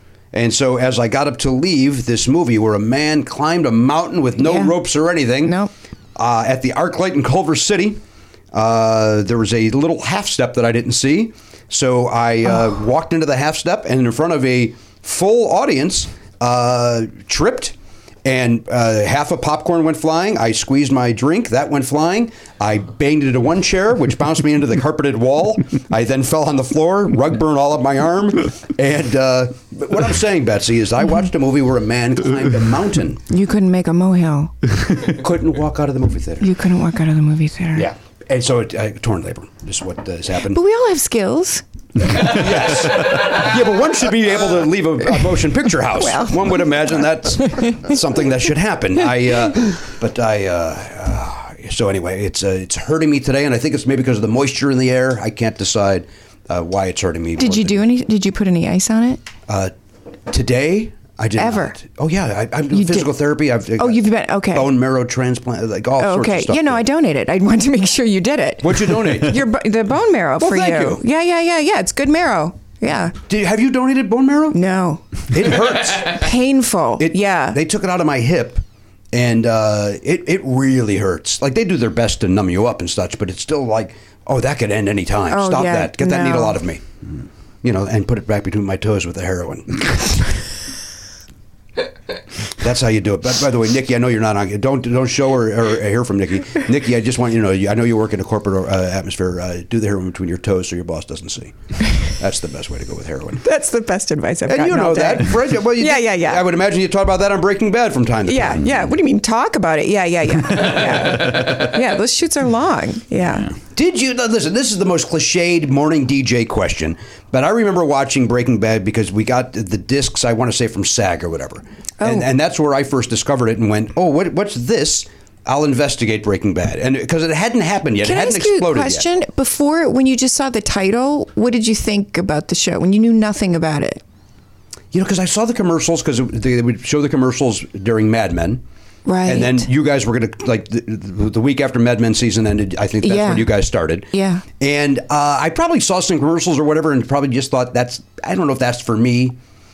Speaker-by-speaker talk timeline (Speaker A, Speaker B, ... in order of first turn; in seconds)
Speaker A: 0.3-5.6, 6.2-8.0, 8.5-33.2, 35.0-36.5, 37.7-40.6, 42.1-57.9, 59.5-59.7, 60.3-66.8, 68.6-69.4, 70.4-71.0, 73.3-74.6, 75.3-76.2, 77.0-86.8, 87.6-90.0, 92.6-103.4, 104.5-108.7, 113.7-129.1, 134.9-138.6, 139.2-149.4
Speaker B: 4.4-4.8, 5.4-5.7, 33.3-34.5, 36.4-37.9, 40.5-41.6, 46.0-47.9, 57.4-59.3, 61.4-61.8, 62.7-63.1, 63.8-64.7, 66.0-73.2, 74.5-75.3, 76.1-77.6, 85.3-86.6, 103.4-106.5, 108.3-113.6, 122.0-122.3, 128.0-134.0, 139.1-139.7, 143.0-144.4